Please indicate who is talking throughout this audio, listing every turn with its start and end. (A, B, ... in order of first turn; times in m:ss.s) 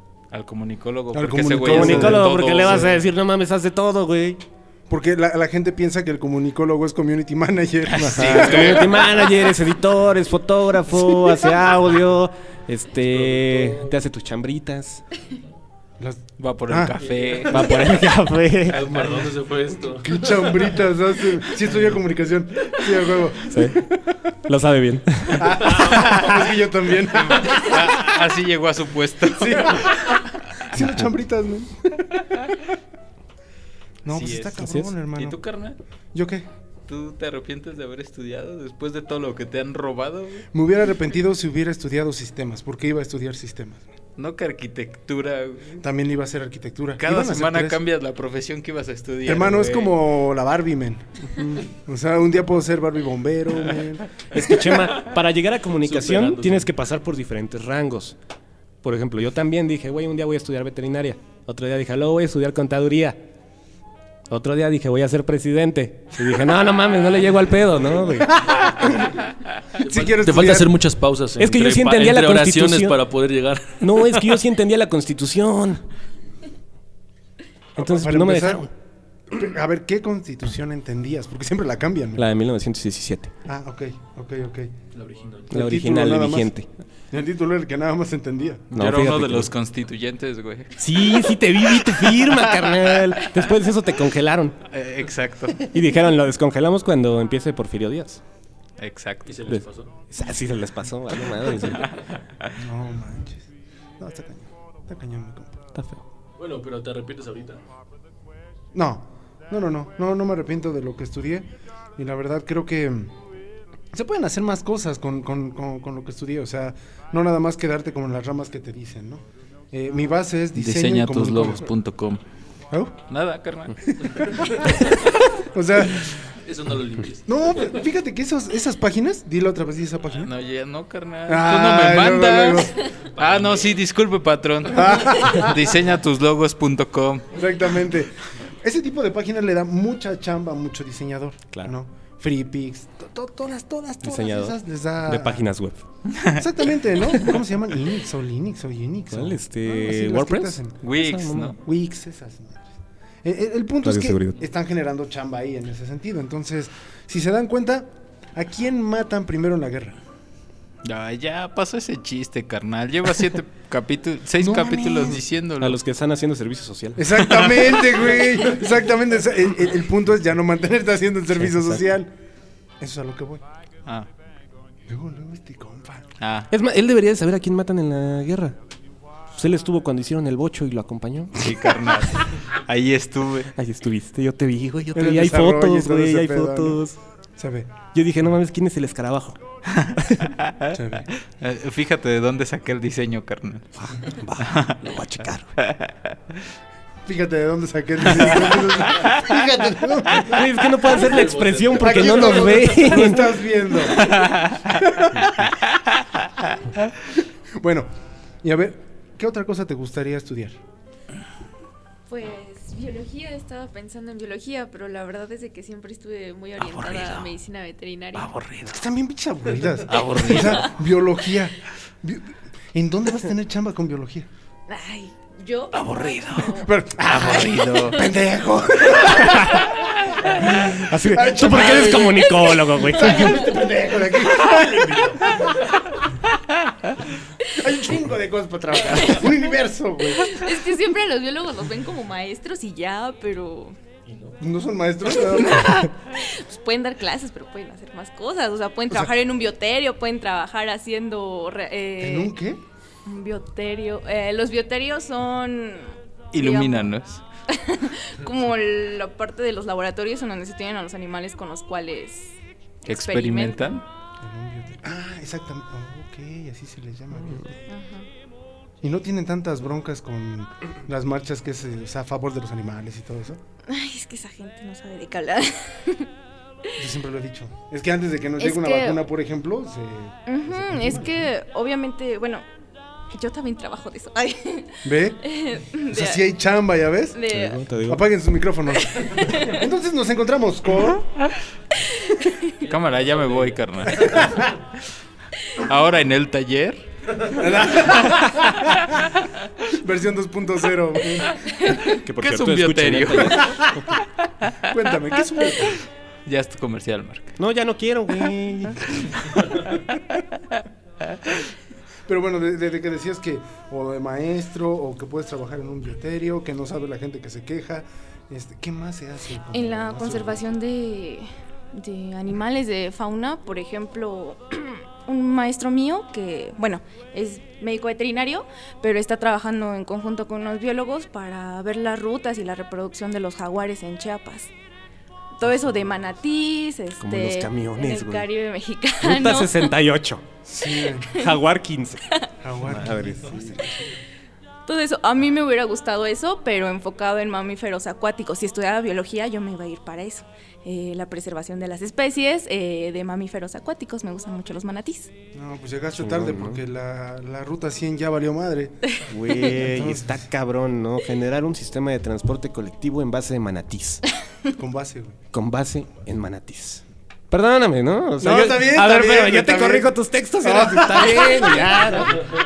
0:00.3-0:03.0 A
0:01.1-0:02.9 B
0:01.6-0:04.4 C
0:04.9-0:09.0 B
0:07.9-0:09.2 A
0:08.0-0:15.0 C
0:13.2-0:13.8 D
0:16.0-0:17.0 B
0:16.4-0:17.7 A
0:17.5-0:19.0 C
0:18.7-0:20.7 D
0:20.0-0:23.9 B
0:23.5-0:23.8 C
0:24.4-0:26.0 C
0:25.4-0:28.0 B
0:25.9-0:26.4 A
0:27.1-0:30.2 A
0:29.4-0:32.3 B
0:30.7-0:31.1 C
0:34.0-0:35.4 B
0:34.1-0:35.8 A
0:36.1-0:36.5 B
0:36.9-0:40.5 A
0:40.5-0:43.9 B
0:44.2-0:45.8 A
0:45.8-0:47.8 B
0:47.0-0:50.0 A
0:49.2-0:54.4 B
0:51.4-0:51.6 C
0:54.3-0:58.2 C
0:55.8-0:56.7 D
0:58.8-1:03.2 C
1:04.3-1:08.5 C
1:08.3-1:09.2 B
1:09.8-1:14.2 D
1:09.8-1:10.8 B
1:11.4-1:13.0 C
1:13.8-1:15.8 C
1:17.8-1:18.7 B
1:17.8-1:18.7 C
1:19.3-1:22.2 B
1:22.2-1:23.3 C
1:23.4-1:24.7 B
1:24.9-1:25.5 D
1:25.5-1:26.7 C
1:25.5-1:26.5 B
1:27.1-1:28.7 B
1:28.7-1:29.5 C
1:28.7-1:30.8 A
1:30.8-1:34.5 C
1:31.8-1:32.7 A
1:34.7-1:35.7 A
1:35.6-1:38.2 C
1:38.8-1:39.3 A
1:39.3-1:39.9 D
1:39.5-1:41.9 C
1:42.6-1:43.4 B
1:44.0-1:45.6 B
1:45.7-1:46.0 C
1:46.4-1:47.6 D
1:48.7-1:53.1 B
1:53.9-2:01.7 B
2:00.6-2:02.2 A
2:03.1-2:03.9 A
2:03.8-2:06.2 B
2:06.3-2:07.7 D
2:07.3-2:10.3 B
2:10.2-2:17.4 A
2:11.3-2:12.8 B
2:13.0-2:13.7 D
2:14.7-2:15.6 B
2:17.3-2:25.4 B
2:24.0-2:25.8 C
2:26.3-2:30.8 B
2:29.1-2:31.6 C
2:30.8-2:31.6 A
2:31.6-2:32.6 B
2:33.2-2:40.0 B
2:33.8-2:34.4 C
2:40.8-2:45.8 A
2:44.4-2:45.2 B
2:45.6-2:47.3 C
2:47.0-2:52.1 B
2:47.2-2:47.7 A
2:51.3-2:51.9 C
2:52.8-2:53.4 B
2:54.9-2:56.0 B
2:56.2-2:56.5 A
2:56.5-2:58.6 C
2:59.3-3:01.6 C
3:01.4-3:03.5 A
3:03.5-3:07.0 C
3:04.9-3:06.8 B
3:07.4-3:07.8 B
3:07.9-3:09.4 C
3:09.7-3:10.7 A
3:09.9-3:10.3 C
3:10.7-3:11.1 B
3:11.4-3:13.7 A
3:13.8-3:15.6 C
3:14.4-3:14.8 A
3:15.6-3:16.0 A
3:17.0-3:20.5 B
3:18.2-3:18.6 A
3:20.2-3:23.4 C
3:21.0-3:22.6 D
3:21.8-3:25.5 B
3:23.9-3:24.6 A
3:27.6-3:27.9 B
3:28.4-3:30.6 B
3:32.1-3:38.3 E
3:36.6-3:37.3 A
3:38.1-3:38.8 A
3:38.7-3:44.3 B
3:39.8-3:40.8 A
3:44.7-3:46.7 E
3:45.7-3:48.1 A
3:46.6-3:49.8 B
3:50.3-3:53.5 C
3:50.4-3:55.6 B
3:57.4-4:00.5 B
4:00.2-4:03.8 E
4:04.0-4:04.4 D
4:04.4-4:05.8 B
4:05.4-4:12.3 E
4:12.0-4:12.6 B
4:13.0-4:16.9 E
4:16.3-4:17.2 A
4:17.5-4:22.3 E
4:22.8-4:23.8 A
4:22.9-4:23.8 E
4:24.2-4:27.6 B
4:27.7-4:28.1 E
4:28.8-4:33.4 B
4:33.7-4:36.1 E
4:36.8-4:41.2 B
4:38.4-4:39.0 E
4:40.2-4:42.4 E
4:43.1-4:46.2 E
4:44.8-4:45.2 B
4:45.8-4:47.2 B
4:47.1-4:47.6 E
4:47.3-4:48.0 C
4:47.8-4:51.1 B
4:49.0-4:49.6 E
4:52.0-4:52.5 E
4:52.6-4:54.4 A
4:52.6-4:54.2 D
4:54.0-4:54.5 B
4:55.5-4:56.8 A
4:57.3-4:58.8 B
4:59.7-5:01.7 B
5:01.9-5:04.0 C
5:02.0-5:03.5 A
5:04.7-5:05.8 B
5:06.2-5:07.4 A
5:07.4-5:09.3 C
5:12.1-5:20.4 B
5:19.5-5:34.5 E
5:35.4-5:39.7 E
5:37.0-5:38.3 C
5:39.0-5:40.2 C
5:40.4-5:41.2 B
5:41.0-5:41.4 E
5:41.1-5:42.0 C
5:42.4-5:43.8 B
5:42.6-5:43.6 C
5:44.7-5:55.1 E
5:55.3-6:00.2 B
5:56.0-5:56.6 C
5:59.1-6:04.0 C
6:04.6-6:05.2 B
6:05.3-6:12.2 C
6:08.2-6:11.7 B